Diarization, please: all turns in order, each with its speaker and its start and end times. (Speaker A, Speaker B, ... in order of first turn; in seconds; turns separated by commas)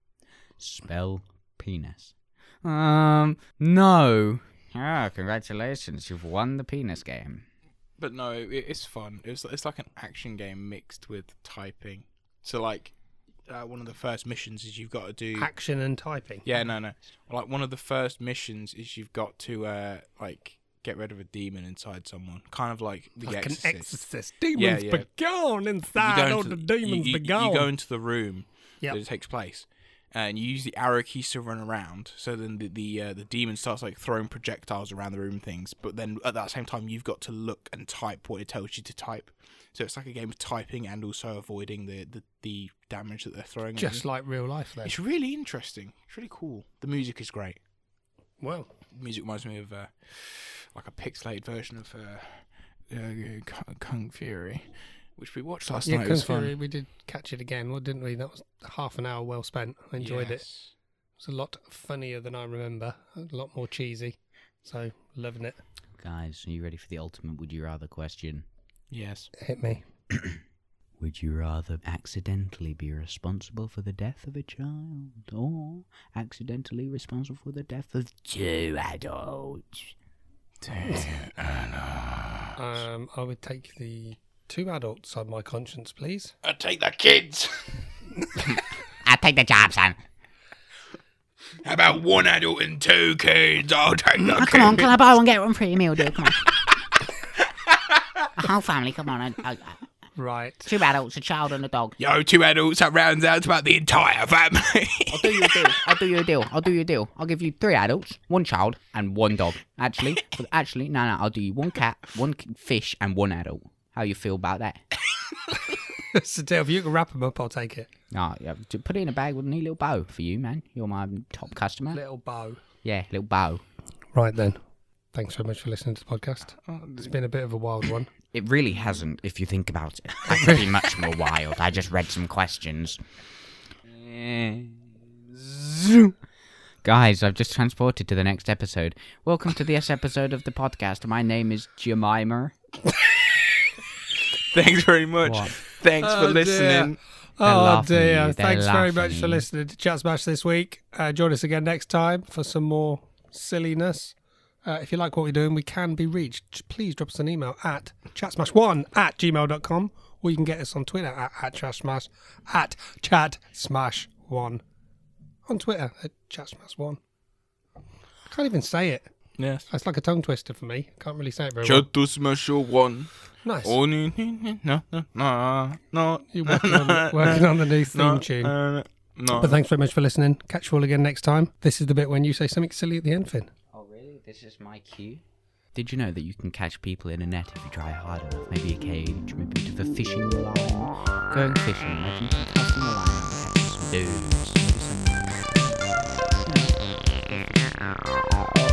Speaker A: 0.6-7.5, Speaker B: 8.0-12.9, Speaker B: 13.5-15.5, Speaker C: 15.4-16.4, Speaker B: 16.4-24.0, Speaker C: 23.2-27.7, Speaker B: 24.5-25.1, Speaker B: 25.9-44.0, Speaker C: 43.8-45.0, Speaker B: 44.8-47.6, Speaker C: 48.4-48.7, Speaker B: 48.9-56.5, Speaker C: 55.8-60.4, Speaker B: 60.0-60.7, Speaker C: 61.2-65.6, Speaker A: 66.0-68.5, Speaker B: 68.9-69.3, Speaker C: 69.4-69.8, Speaker A: 70.1-70.4, Speaker A: 71.0-79.9, Speaker B: 80.6-82.5, Speaker C: 82.5-86.3, Speaker B: 86.4-87.8, Speaker A: 88.4-90.0, Speaker B: 91.6-94.9, Speaker A: 94.2-96.5, Speaker B: 97.7-98.3, Speaker A: 98.3-99.8, Speaker C: 100.2-100.7, Speaker A: 100.6-102.0, Speaker B: 102.0-105.8, Speaker A: 105.1-114.8, Speaker C: 116.0-117.9, Speaker A: 118.1-122.0, Speaker C: 121.9-122.6, Speaker A: 122.8-123.6, Speaker C: 124.1-124.6, Speaker C: 125.1-128.1, Speaker B: 126.6-127.1, Speaker A: 128.3-133.0, Speaker A: 133.8-136.2, Speaker A: 136.8-142.5, Speaker B: 144.5-147.0, Speaker A: 145.2-145.5, Speaker C: 146.0-164.6, Speaker A: 147.4-149.4, Speaker C: 165.4-167.0, Speaker C: 168.3-169.1, Speaker B: 169.4-169.7, Speaker C: 169.7-171.8, Speaker B: 171.6-179.6, Speaker C: 173.4-173.8, Speaker C: 176.3-178.5, Speaker C: 179.3-183.5, Speaker A: 183.7-185.2, Speaker A: 185.7-198.4